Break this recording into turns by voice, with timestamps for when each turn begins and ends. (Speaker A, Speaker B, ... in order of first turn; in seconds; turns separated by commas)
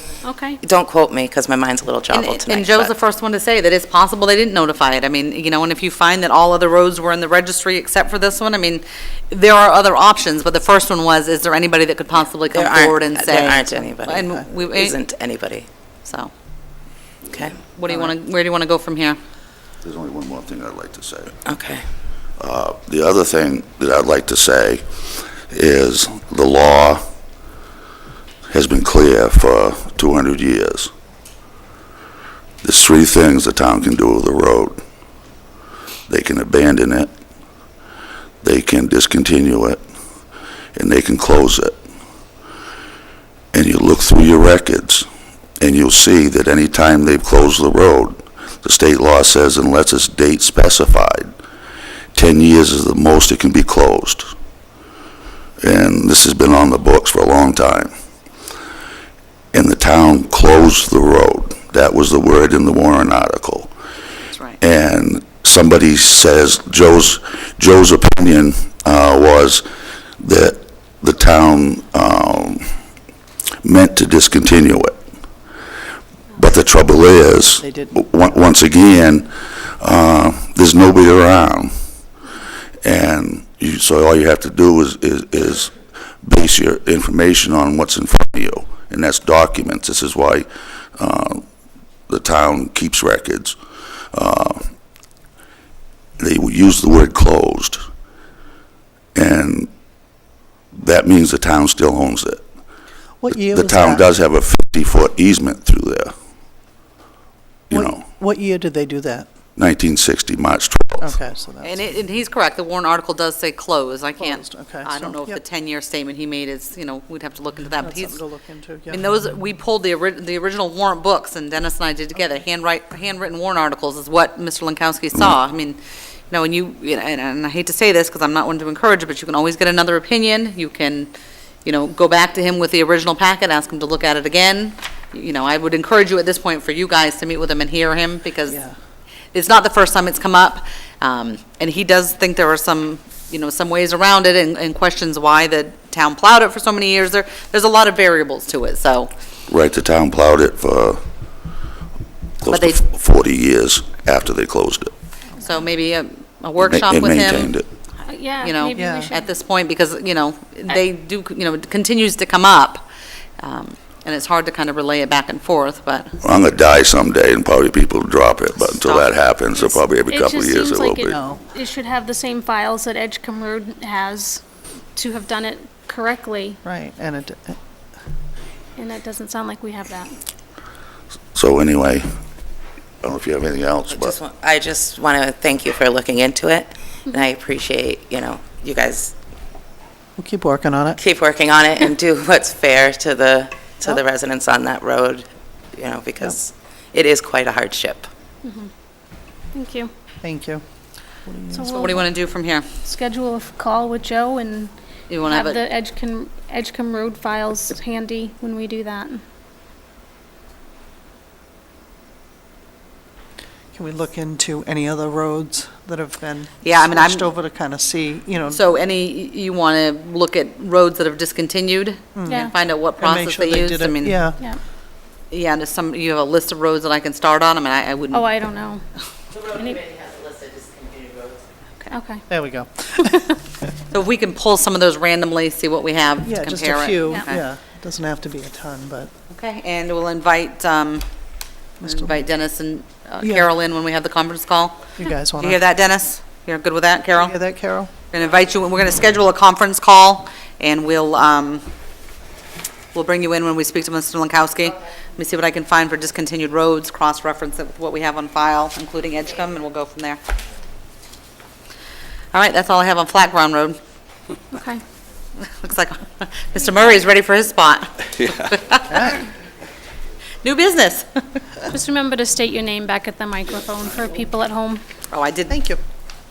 Speaker A: 0.2-0.6, Speaker B: 0.6-2.9, Speaker C: 2.1-15.0, Speaker B: 12.5-15.7, Speaker C: 16.1-16.3, Speaker B: 17.3-17.6, Speaker C: 17.7-19.2, Speaker D: 19.8-21.4, Speaker B: 21.4-21.8, Speaker D: 22.4-24.8, Speaker D: 25.5-27.0, Speaker D: 28.5-30.9, Speaker D: 32.6-34.8, Speaker D: 36.1-37.1, Speaker D: 38.4-39.8, Speaker D: 40.7-41.8, Speaker D: 43.5-45.0, Speaker D: 45.6-51.3, Speaker D: 52.1-54.3, Speaker D: 55.6-57.9, Speaker D: 59.5-63.7, Speaker D: 64.6-69.6, Speaker D: 70.2-72.7, Speaker D: 73.6-75.0, Speaker D: 76.3-79.3, Speaker E: 77.6-78.0, Speaker D: 79.8-81.7, Speaker D: 82.8-85.7, Speaker D: 86.2-90.5, Speaker D: 91.0-91.4, Speaker D: 92.1-93.5, Speaker D: 94.1-94.7, Speaker D: 96.2-97.8, Speaker D: 99.1-99.7, Speaker D: 100.7-102.4, Speaker E: 103.2-104.0, Speaker D: 103.3-106.1, Speaker D: 107.7-108.0, Speaker E: 107.7-109.3, Speaker D: 109.5-111.1, Speaker E: 111.0-111.8, Speaker C: 111.6-118.2, Speaker E: 114.2-115.4, Speaker E: 117.8-119.0, Speaker C: 118.9-125.8, Speaker C: 126.3-131.1, Speaker C: 131.6-138.6, Speaker E: 138.5-138.7, Speaker C: 139.3-149.1, Speaker D: 149.5-151.0, Speaker D: 152.4-154.9, Speaker C: 152.5-152.8, Speaker C: 155.4-157.5, Speaker D: 156.6-157.7, Speaker A: 158.1-159.3, Speaker C: 158.4-162.8, Speaker E: 158.8-159.1, Speaker C: 163.4-166.1, Speaker D: 166.2-171.2, Speaker C: 168.8-169.1, Speaker A: 169.6-174.4, Speaker E: 171.1-171.5, Speaker A: 174.9-176.6, Speaker E: 176.6-177.6, Speaker A: 178.8-180.2, Speaker D: 181.3-182.1, Speaker D: 183.0-184.2, Speaker B: 183.9-189.1, Speaker E: 190.2-191.0, Speaker B: 191.0-198.1, Speaker A: 198.4-198.7, Speaker A: 199.5-199.9, Speaker E: 200.2-200.6, Speaker E: 201.2-202.1, Speaker A: 201.5-202.0, Speaker C: 201.7-202.7, Speaker A: 202.8-209.2, Speaker C: 205.1-205.6, Speaker E: 213.7-218.7, Speaker C: 216.6-217.3, Speaker C: 218.5-224.2, Speaker E: 222.1-224.5, Speaker C: 225.3-228.3, Speaker A: 228.1-228.8, Speaker B: 229.3-231.4, Speaker A: 231.9-232.2, Speaker E: 232.3-233.2, Speaker A: 233.0-233.3, Speaker C: 233.9-237.4, Speaker E: 236.2-239.1, Speaker C: 239.3-241.0, Speaker E: 241.8-242.2, Speaker C: 241.8-244.8, Speaker E: 243.2-243.5, Speaker E: 244.9-245.6, Speaker C: 245.4-247.4, Speaker E: 247.2-247.9, Speaker C: 248.1-251.6, Speaker C: 252.9-260.2, Speaker C: 262.3-263.8, Speaker A: 264.5-264.8, Speaker C: 265.4-269.1, Speaker E: 268.9-269.2, Speaker C: 270.4-271.1, Speaker A: 271.7-274.8, Speaker C: 275.1-275.6, Speaker E: 275.5-275.8